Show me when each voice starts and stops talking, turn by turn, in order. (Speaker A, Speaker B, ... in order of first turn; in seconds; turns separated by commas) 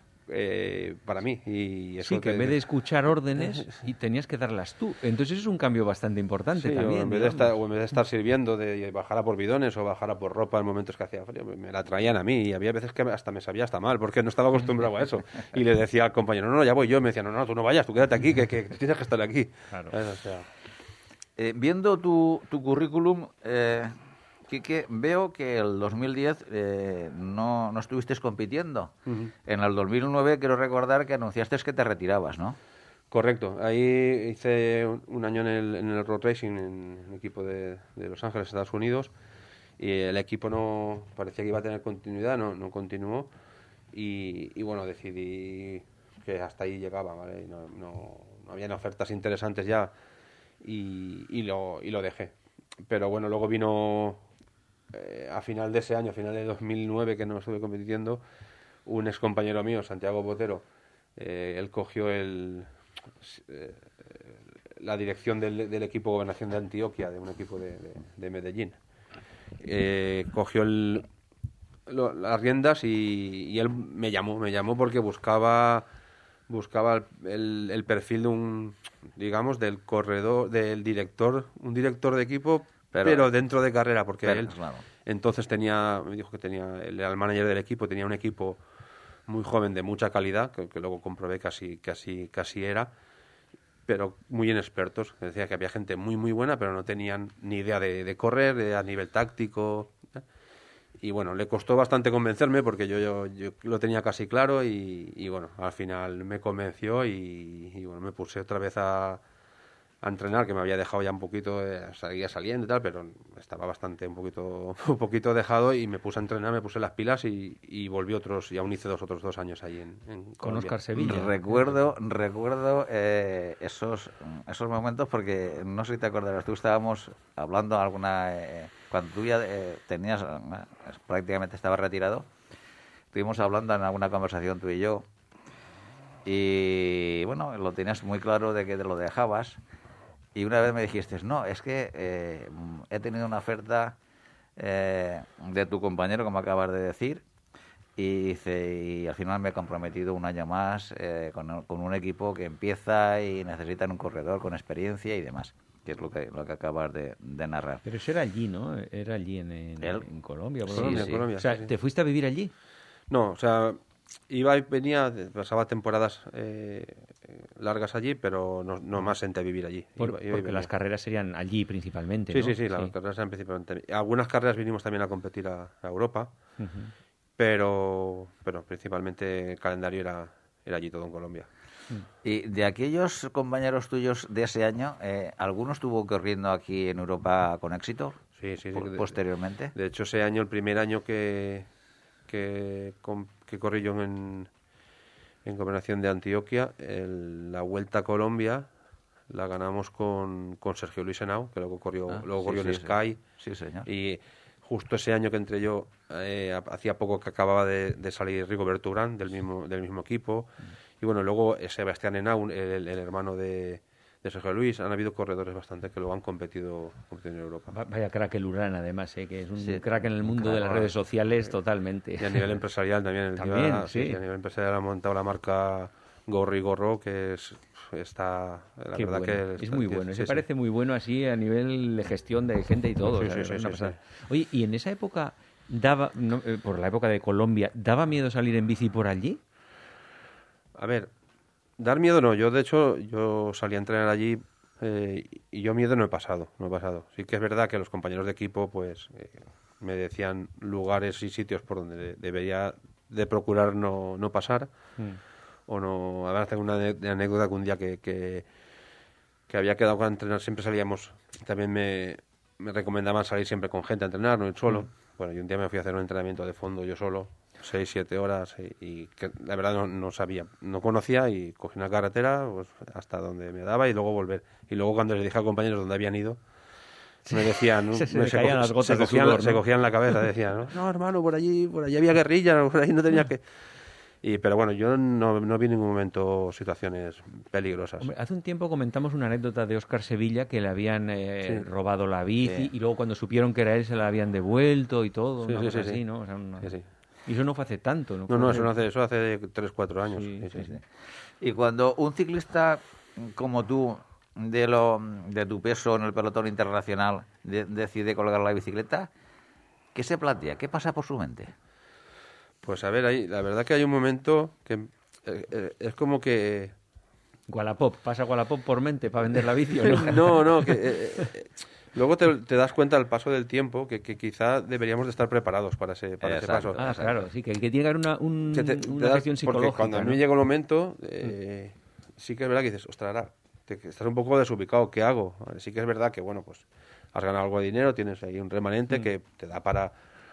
Speaker A: 0.3-2.6, Speaker B: 2.0-7.5, Speaker A: 6.6-20.5, Speaker C: 21.4-23.9, Speaker C: 24.5-28.9, Speaker A: 29.1-29.3, Speaker C: 29.4-32.6, Speaker A: 33.1-39.1, Speaker A: 39.8-43.3, Speaker A: 43.9-49.9, Speaker A: 50.6-52.3, Speaker A: 52.9-54.2, Speaker A: 54.9-58.2, Speaker A: 58.9-60.6, Speaker A: 61.2-62.7, Speaker A: 63.2-68.8, Speaker A: 69.6-71.1, Speaker A: 71.9-75.9, Speaker A: 76.5-84.5, Speaker C: 82.9-83.3, Speaker C: 84.2-84.8, Speaker A: 85.1-88.6, Speaker A: 89.3-92.9, Speaker A: 93.9-100.2, Speaker A: 101.0-109.2, Speaker A: 110.0-121.2, Speaker B: 120.4-121.4, Speaker C: 121.0-132.3, Speaker C: 133.1-135.1, Speaker C: 136.2-139.6, Speaker C: 140.4-144.0, Speaker C: 144.6-147.2, Speaker C: 148.0-157.8, Speaker B: 157.8-162.5, Speaker C: 159.8-160.1, Speaker C: 160.7-161.3, Speaker A: 160.7-161.7, Speaker A: 163.1-170.7, Speaker B: 170.0-172.9, Speaker A: 172.3-176.3, Speaker B: 176.6-176.9, Speaker A: 177.4-181.5, Speaker C: 182.2-189.7, Speaker A: 188.4-189.2, Speaker A: 189.7-191.7, Speaker A: 192.3-194.5, Speaker A: 195.4-198.7, Speaker A: 199.3-203.2, Speaker C: 202.1-203.9, Speaker A: 203.8-217.8, Speaker B: 217.7-222.5, Speaker C: 220.4-220.7, Speaker A: 222.2-230.4, Speaker B: 223.4-224.2, Speaker B: 228.9-239.4, Speaker A: 233.1-234.0, Speaker A: 240.8-241.1, Speaker A: 241.8-254.7, Speaker A: 255.7-258.5, Speaker A: 259.5-276.4, Speaker B: 277.3-279.6, Speaker A: 277.3-283.5, Speaker A: 284.2-288.1, Speaker B: 288.0-296.7, Speaker C: 292.4-292.7, Speaker A: 295.5-296.0, Speaker A: 296.6-296.9, Speaker B: 297.3-298.7, Speaker A: 298.3-300.7, Speaker B: 300.1-300.5, Speaker C: 300.6-300.8, Speaker C: 301.4-309.1, Speaker C: 309.9-311.5, Speaker A: 312.6-316.7, Speaker B: 317.5-320.4, Speaker A: 319.9-326.8, Speaker C: 326.2-327.2, Speaker B: 326.8-330.2, Speaker A: 328.5-339.9